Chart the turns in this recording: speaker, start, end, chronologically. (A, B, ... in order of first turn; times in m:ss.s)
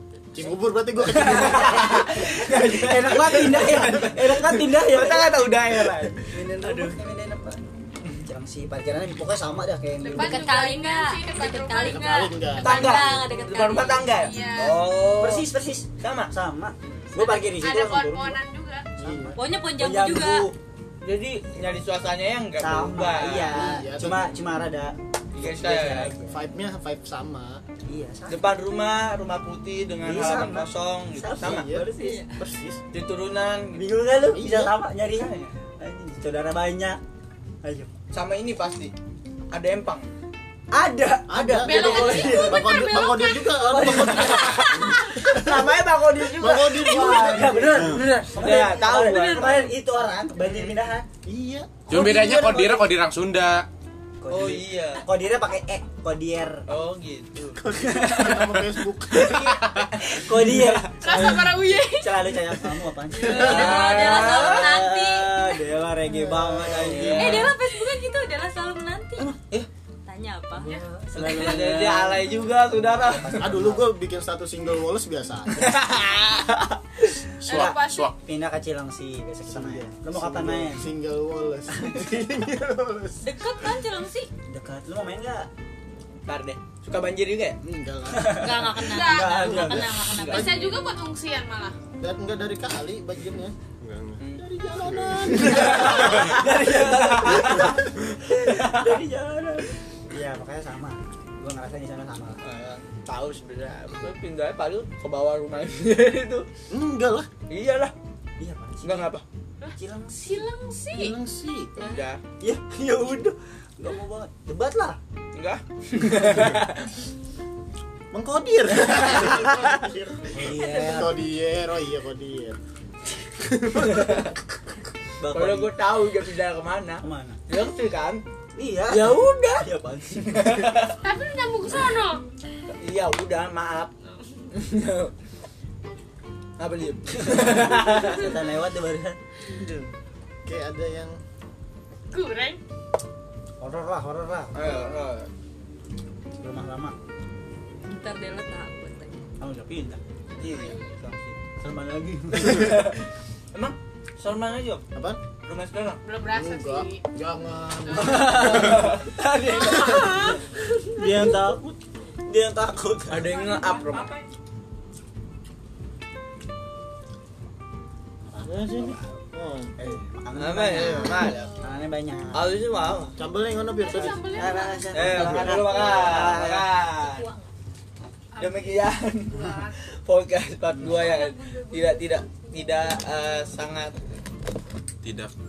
0:00.3-0:02.1 A
0:01.1-0:07.6 B
0:01.1-0:07.0 C
0:08.2-0:10.4 B
0:10.0-0:14.8 D
0:10.1-0:14.3 E
0:11.8-0:13.2 A
0:12.6-0:16.3 C
0:14.9-0:18.4 B
0:16.8-0:17.2 C
0:17.2-0:18.9 D
0:19.0-0:20.6 B
0:19.0-0:19.4 A
0:19.3-0:20.5 E
0:21.0-0:23.7 C
0:22.6-0:26.4 B
0:23.4-0:24.3 A
0:25.3-0:26.1 C
0:26.2-0:27.6 A
0:27.9-0:28.5 B
0:28.3-0:31.7 C
0:30.0-0:32.3 B
0:31.4-0:32.8 A
0:32.9-0:33.8 C
0:33.7-0:37.0 B
0:34.3-0:34.7 A
0:35.1-0:35.5 C
0:37.6-0:37.9 B
0:38.1-0:38.9 C
0:39.5-0:40.1 C
0:40.7-0:42.9 B
0:41.3-0:45.6 A
0:41.6-0:43.0 D
0:41.9-0:43.8 E
0:43.5-0:51.1 B
0:43.8-0:49.7 C
0:46.3-0:48.0 A
0:48.7-0:49.6 E
0:50.4-0:50.7 C
0:51.2-0:51.8 A
0:51.9-0:53.7 F
0:51.9-0:52.9 B
0:54.2-0:56.6 B
0:54.3-0:55.0 C
0:56.7-0:57.6 C
0:57.5-0:59.6 A
0:57.8-0:58.6 B
0:59.1-1:01.2 C
1:00.0-1:07.6 B
1:01.0-1:02.4 D
1:03.1-1:05.6 E
1:03.2-1:04.1 A
1:03.3-1:04.7 C
1:06.2-1:07.6 C
1:07.1-1:09.4 E
1:10.0-1:10.8 E
1:10.6-1:13.9 B
1:11.1-1:13.5 C
1:13.4-1:15.7 A
1:15.6-1:17.1 C
1:17.4-1:18.2 F
1:17.4-1:18.1 D
1:17.5-1:20.9 B
1:19.4-1:23.2 A
1:23.2-1:24.3 E
1:24.5-1:25.5 B
1:26.2-1:27.6 C
1:27.6-1:30.4 A
1:28.1-1:29.9 B
1:28.2-1:30.9 E
1:28.9-1:29.6 D
1:30.1-1:30.6 C
1:30.2-1:31.8 D
1:32.0-1:33.6 A
1:33.8-1:34.2 F
1:34.4-1:36.2 A
1:35.3-1:37.8 C
1:35.7-1:42.4 B
1:38.4-1:39.0 C
1:42.4-1:46.5 C
1:46.7-1:47.3 A
1:47.5-1:47.9 C
1:48.4-1:49.1 B
1:48.8-1:49.2 C
1:49.6-1:51.2 D
1:49.8-1:50.5 B
1:50.9-1:51.9 A
1:51.8-1:52.2 C
1:52.4-1:55.0 B
1:55.3-1:56.8 C
1:58.1-2:02.6 A
2:00.3-2:01.2 B
2:03.5-2:04.3 A
2:03.8-2:04.3 C
2:05.2-2:05.7 B
2:05.3-2:08.2 C
2:07.0-2:07.4 B
2:08.5-2:10.7 B
2:08.9-2:11.0 C
2:11.0-2:12.2 D
2:12.8-2:13.9 C
2:14.5-2:15.1 C
2:16.6-2:18.3 C
2:17.2-2:19.2 B
2:20.4-2:21.2 A
2:22.1-2:22.6 D
2:23.6-2:24.8 B
2:24.5-2:25.3 C
2:26.4-2:26.9 B
2:27.9-2:29.1 E
2:29.4-2:30.0 B
2:30.4-2:31.1 C
2:31.0-2:33.0 B
2:32.5-2:32.9 C
2:33.5-2:34.8 C
2:34.9-2:35.2 A
2:35.4-2:36.0 C
2:36.0-2:37.0 D
2:36.3-2:38.9 A
2:37.9-2:38.3 D
2:38.0-2:40.4 C
2:39.7-2:40.3 B
2:40.9-2:43.5 B
2:43.1-2:44.2 C
2:43.8-2:44.1 D
2:48.3-2:49.8 A
2:48.4-2:48.9 B
2:49.8-2:52.6 B
2:50.3-2:51.5 C
2:50.7-2:51.3 A
2:52.3-2:53.2 C
2:53.2-2:54.5 A
2:53.8-2:55.0 D
2:53.9-2:56.7 B
2:54.9-2:57.3 C
2:55.5-2:56.3 E
2:57.0-2:57.4 E
2:58.3-2:59.8 D
2:58.4-3:04.0 C
3:00.7-3:01.1 B
3:05.0-3:05.3 F